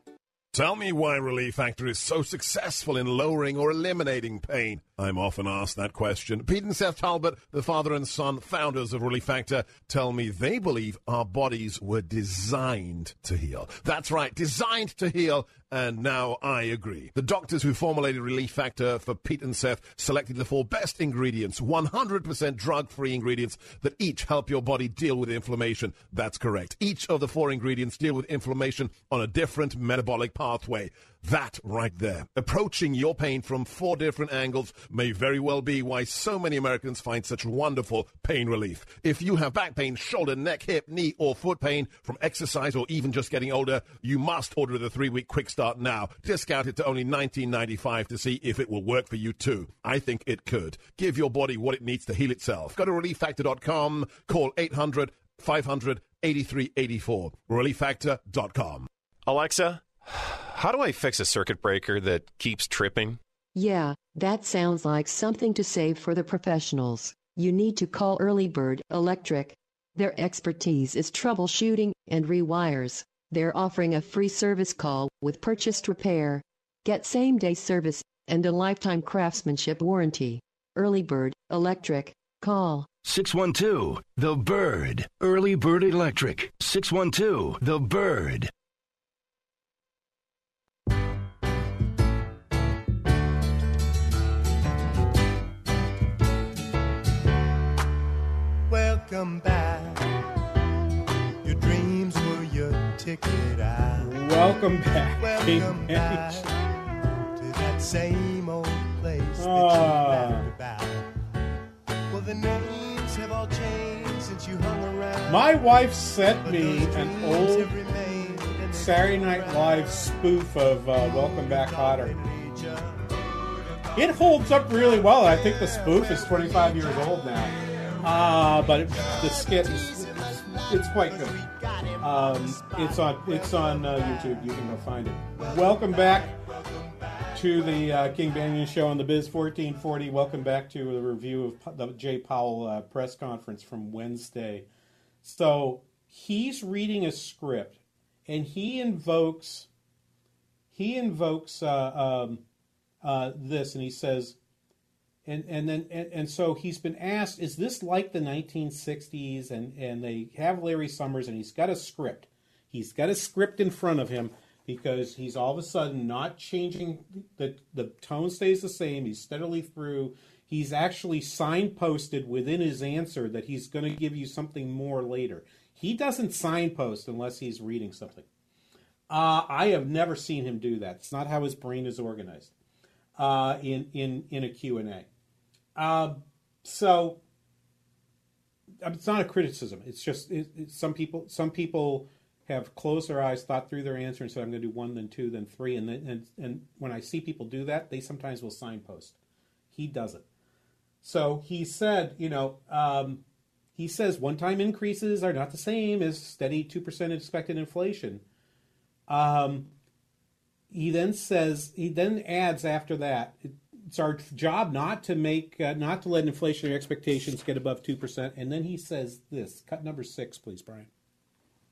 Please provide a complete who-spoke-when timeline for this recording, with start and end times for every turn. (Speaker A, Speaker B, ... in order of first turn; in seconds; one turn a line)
Speaker A: 0.5-58.9
Speaker B: 59.3-59.8
Speaker B: 60.5-63.2
Speaker C: 63.5-82.9
Speaker D: 83.0-88.5
Speaker E: 98.7-100.1
Speaker E: 101.5-104.1
Speaker F: 104.0-106.4
Speaker E: 105.2-106.5
Speaker E: 107.4-111.0
Speaker F: 109.4-110.5
Speaker E: 112.1-115.5
Speaker F: 115.2-117.7
Speaker E: 116.4-119.9
Speaker F: 118.7-122.2
Speaker E: 121.4-123.0
Speaker F: 124.0-131.4
Speaker E: 131.2-133.4
Speaker F: 132.0-136.4
Speaker F: 137.3-144.7
Speaker F: 145.2-149.7
Speaker F: 150.7-152.4
Speaker F: 153.0-154.4
Speaker F: 155.2-178.3
Speaker F: 179.1-182.5
Speaker F: 183.2-185.1
Speaker F: 185.7-187.2
Speaker F: 188.8-199.2
Speaker F: 199.7-200.2
Speaker F: 201.0-203.2
Speaker F: 203.8-208.2
Speaker F: 209.1-209.7
Speaker F: 210.7-220.9